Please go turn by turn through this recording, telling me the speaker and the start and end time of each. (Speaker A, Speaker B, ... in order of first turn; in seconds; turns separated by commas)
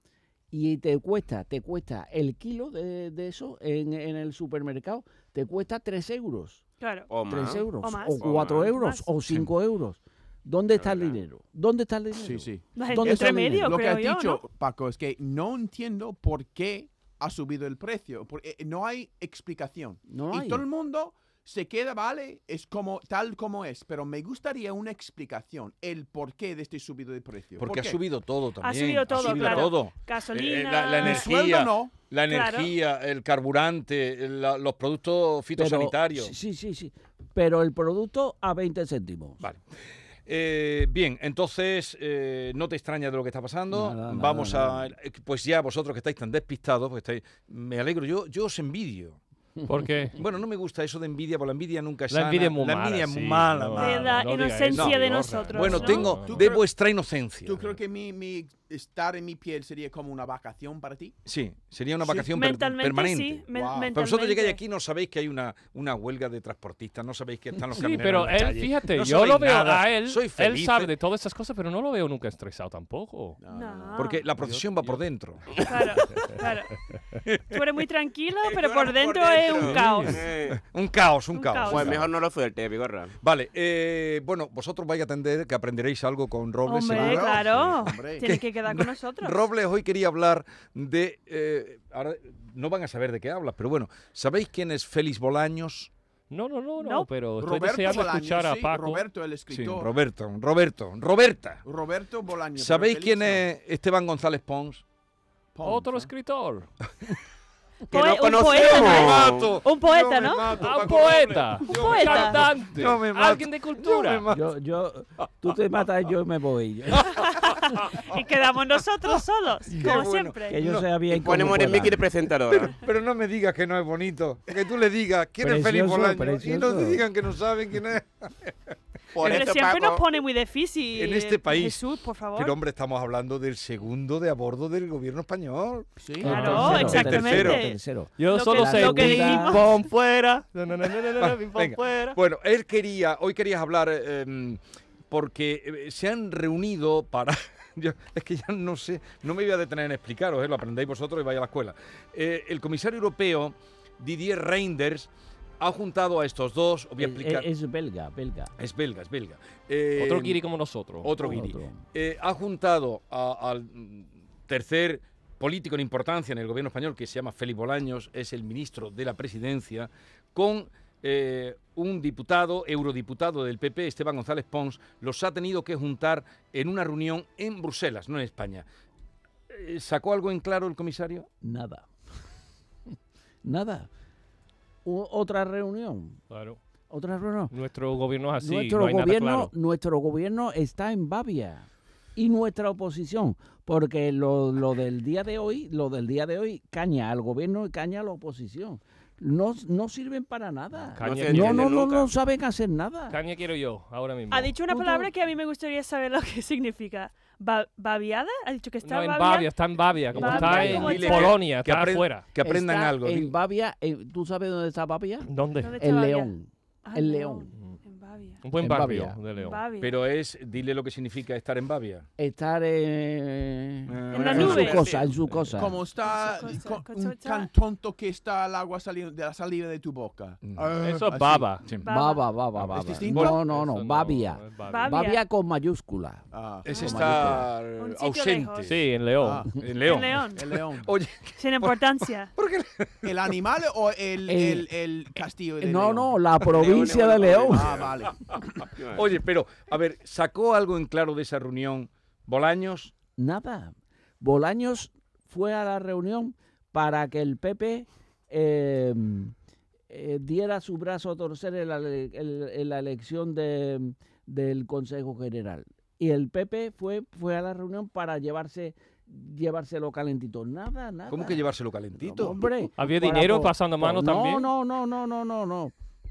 Speaker A: 0.5-6.6, Speaker B: 6.8-7.1, Speaker C: 7.1-7.7, Speaker A: 7.3-13.8, Speaker B: 7.8-9.1, Speaker C: 8.2-8.7, Speaker C: 10.8-11.2, Speaker D: 12.2-28.0, Speaker B: 12.8-14.4, Speaker A: 20.1-20.6, Speaker E: 27.6-36.3, Speaker B: 28.6-31.3, Speaker D: 31.0-31.9, Speaker B: 32.3-32.7, Speaker A: 35.5-39.5, Speaker E: 40.3-49.2, Speaker A: 43.7-45.0, Speaker F: 49.7-50.2, Speaker E: 50.2-54.1, Speaker F: 52.1-56.5, Speaker B: 53.8-56.2, Speaker E: 54.7-57.8, Speaker D: 56.2-56.6, Speaker D: 57.5-61.2, Speaker E: 61.2-70.9, Speaker B: 62.3-64.6, Speaker D: 63.5-63.9, Speaker F: 67.7-73.4, Speaker D: 73.4-74.1, Speaker B: 73.5-74.2, Speaker E: 74.0-75.6, Speaker F: 74.3-75.0, Speaker B: 75.7-76.8, Speaker F: 75.9-76.4, Speaker E: 77.3-77.6, Speaker B: 77.5-80.3, Speaker C: 78.4-80.5, Speaker F: 79.5-80.3, Speaker E: 80.5-82.1, Speaker B: 81.3-81.9, Speaker C: 81.7-83.1, Speaker E: 83.2-95.9, Speaker B: 86.7-89.4, Speaker D: 86.9-88.3, Speaker F: 96.3-99.0, Speaker B: 96.8-97.1, Speaker D: 97.4-99.9, Speaker E: 99.5-101.6, Speaker D: 101.7-103.5, Speaker E: 102.6-104.8, Speaker D: 105.5-106.1, Speaker F: 105.6-106.7, Speaker C: 107.9-109.5, Speaker B: 107.9-110.7, Speaker E: 108.4-114.6, Speaker F: 110.6-114.2, Speaker B: 111.6-112.5, Speaker A: 114.3-117.2, Speaker E: 115.2-115.5, Speaker E: 117.0-118.0, Speaker B: 117.2-120.6, Speaker E: 119.7-120.9, Speaker A: 120.5-122.0, Speaker C: 121.1-122.7, Speaker E: 122.5-128.7, Speaker A: 125.4-127.1, Speaker C: 129.1-130.2, Speaker B: 129.2-132.6, Speaker E: 130.9-135.9, Speaker D: 136.0-136.4, Speaker A: 136.2-139.6, Speaker B: 136.2-139.7, Speaker F: 136.2-137.4, Speaker E: 136.7-137.6, Speaker F: 138.2-142.2, Speaker E: 141.2-157.5, Speaker A: 157.0-158.5, Speaker E: 158.6-160.4, Speaker F: 159.9-161.5, Speaker E: 161.0-178.7, Speaker A: 161.2-161.8, Speaker E: 179.5-181.3, Speaker A: 181.4-181.9, Speaker A: 183.4-183.9, Speaker A: 184.8-186.2, Speaker F: 186.3-186.6, Speaker A: 186.9-187.5, Speaker F: 187.5-189.5, Speaker A: 188.4-203.2, Speaker F: 200.8-201.7, Speaker C: 201.0-202.1, Speaker F: 203.1-204.6, Speaker B: 204.3-211.4, Speaker A: 204.7-205.1, Speaker F: 208.8-212.2, Speaker A: 210.2-210.9, Speaker E: 210.2-213.3, Speaker A: 212.4-217.5, Speaker F: 215.3-215.7, Speaker B: 215.6-216.3, Speaker B: 216.9-218.4, Speaker F: 218.4-219.6, Speaker A: 218.6-219.2, Speaker B: 219.4-220.0, Speaker E: 219.8-222.1, Speaker A: 222.2-225.8, Speaker E: 223.9-224.8, Speaker B: 224.1-224.8, Speaker C: 224.2-225.0, Speaker F: 225.3-225.7, Speaker D: 225.6-231.7, Speaker B: 226.0-227.5, Speaker E: 230.4-230.7, Speaker F: 230.8-231.7, Speaker B: 231.8-232.2, Speaker A: 231.9-237.5, Speaker E: 232.5-233.4, Speaker D: 232.8-233.4, Speaker F: 233.4-234.9, Speaker B: 234.6-235.2, Speaker D: 236.3-237.5, Speaker E: 236.7-238.8, Speaker B: 237.7-238.8, Speaker F: 238.7-239.5, Speaker D: 239.2-239.6, Speaker E: 239.6-243.3, Speaker B: 239.8-240.4, Speaker D: 240.3-240.9, Speaker B: 241.4-242.3, Speaker D: 243.1-246.2, Speaker A: 244.3-244.7, Speaker A: 245.6-247.8, Speaker C: 246.5-247.9, Speaker D: 247.2-248.7, Speaker E: 248.1-248.4, Speaker E: 248.9-252.9, Speaker A: 253.2-259.3, Speaker A: 259.9-275.7, Speaker E: 271.1-272.5, Speaker F: 272.8-274.5